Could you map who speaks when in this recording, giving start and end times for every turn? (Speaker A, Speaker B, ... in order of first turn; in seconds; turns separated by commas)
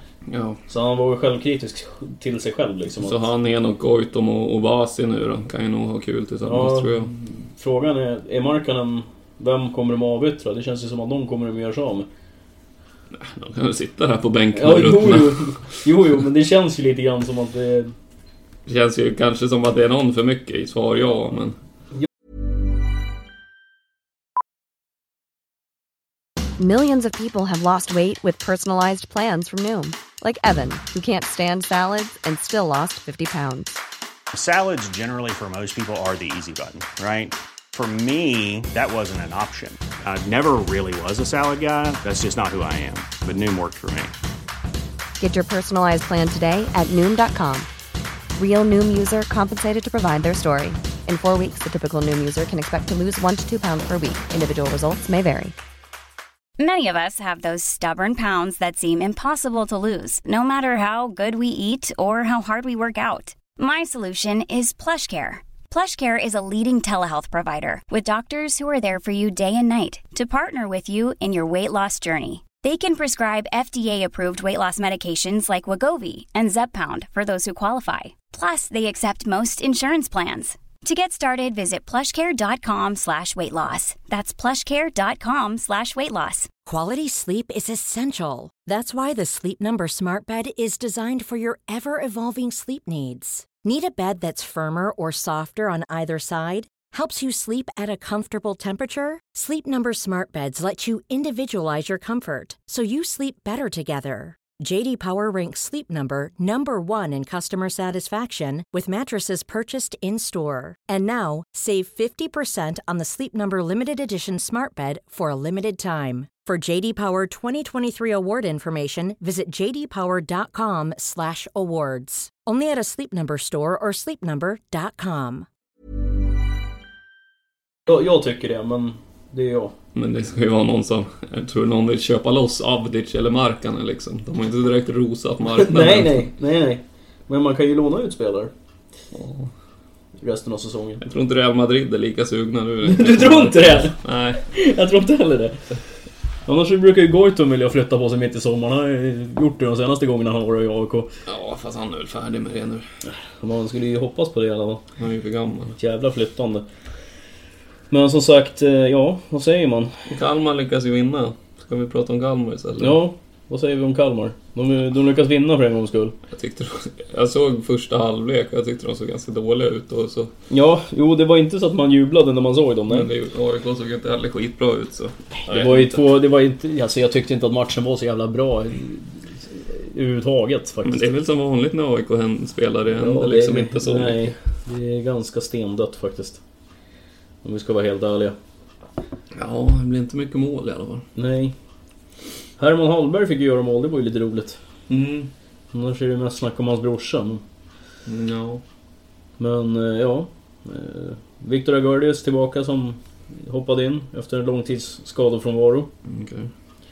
Speaker A: 0.3-0.6, Speaker B: 0.7-3.2, Speaker A: 3.0-7.1, Speaker B: 6.4-12.1, Speaker A: 13.1-15.6, Speaker B: 14.5-17.9, Speaker A: 18.6-21.6, Speaker C: 26.6-33.8, Speaker D: 34.3-44.1, Speaker C: 45.2-47.7, Speaker C: 48.4-55.5, Speaker E: 56.6-86.5, Speaker F: 86.7-125.5, Speaker B: 127.9-129.7, Speaker A: 129.9-136.3, Speaker B: 135.5-138.5, Speaker A: 139.1-139.5, Speaker B: 140.2-141.0, Speaker A: 141.0-144.4, Speaker B: 142.8-145.6, Speaker B: 146.5-151.1, Speaker A: 151.3-152.8, Speaker B: 153.1-154.8, Speaker A: 155.0-155.7, Speaker B: 155.7-156.7, Speaker B: 157.9-159.9, Speaker A: 160.1-163.0, Speaker B: 162.8-166.2, Speaker A: 166.3-170.3, Speaker B: 170.5-173.1, Speaker A: 172.9-176.1, Speaker B: 175.5-181.1, Speaker A: 180.8-184.3, Speaker B: 182.9-186.4, Speaker B: 187.4-188.3, Speaker A: 189.3-191.0, Speaker B: 191.2-191.5, Speaker B: 192.6-194.6, Speaker A: 194.9-195.3, Speaker B: 195.7-197.4, Speaker A: 198.1-198.6, Speaker B: 199.4-205.9, Speaker A: 206.0-206.5